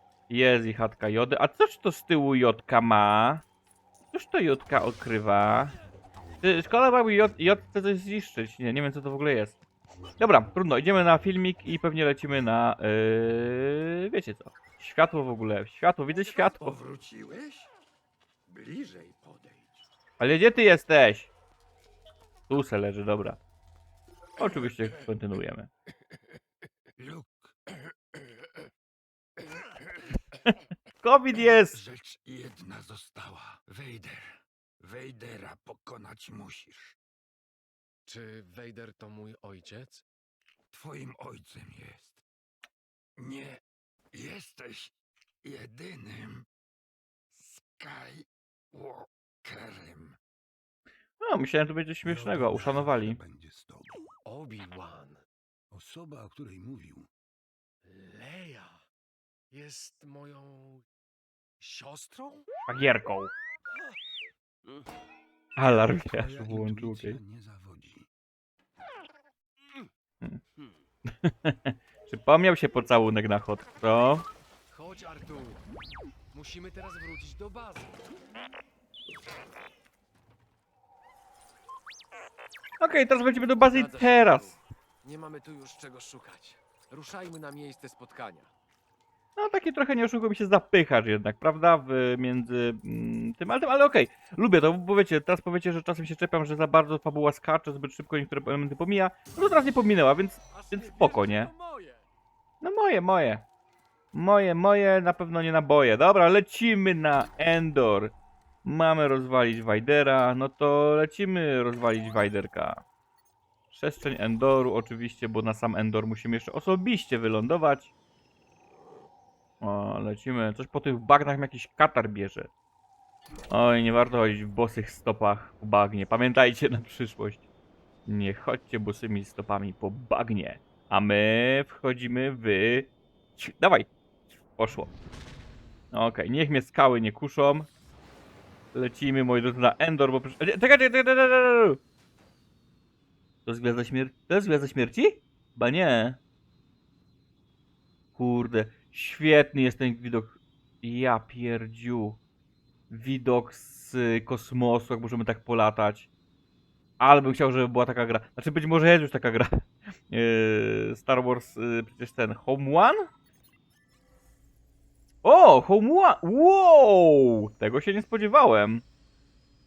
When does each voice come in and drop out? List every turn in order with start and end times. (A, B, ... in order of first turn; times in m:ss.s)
0:00.3-0:03.4 A
0:04.1-0:05.7 A
0:06.4-0:09.6 A
0:10.2-0:16.8 A
0:16.2-0:17.7 B
0:18.5-0:19.8 B
0:20.2-0:21.3 A
0:22.5-0:23.4 A
0:24.4-0:25.7 A
0:24.4-0:24.9 B
0:27.0-0:28.7 B
0:29.4-0:30.2 B
0:31.0-0:31.8 A
0:31.4-0:37.0 B
0:38.1-0:40.0 C
0:40.7-0:42.2 B
0:43.2-0:43.6 B
0:44.1-0:46.5 B
0:47.3-0:50.2 B
0:51.2-0:53.2 A
0:52.0-0:54.0 B
0:54.2-0:55.2 C
0:55.7-0:57.1 B
0:57.8-0:58.8 C
0:59.5-1:00.8 C
1:01.6-1:02.4 C
1:02.7-1:03.3 A
1:05.6-1:07.2 A
1:05.9-1:08.1 B
1:11.1-1:14.2 A
1:14.7-1:15.6 C
1:16.3-1:18.0 C
1:22.8-1:24.6 A
1:23.6-1:28.5 C
1:29.4-1:41.5 A
1:40.5-1:42.0 C
1:42.6-1:43.4 A
1:44.1-1:52.8 A
1:53.7-1:57.9 A
1:59.6-2:02.5 A
2:03.5-2:07.4 A
2:08.1-2:13.9 A
2:14.6-2:14.9 A
2:15.9-2:17.7 A
2:18.7-2:21.8 A
2:23.5-2:26.2 A
2:28.2-2:32.2 A
2:32.9-2:36.1 A
2:37.0-2:39.5 A
2:40.1-2:43.1 A
2:45.2-2:48.8 A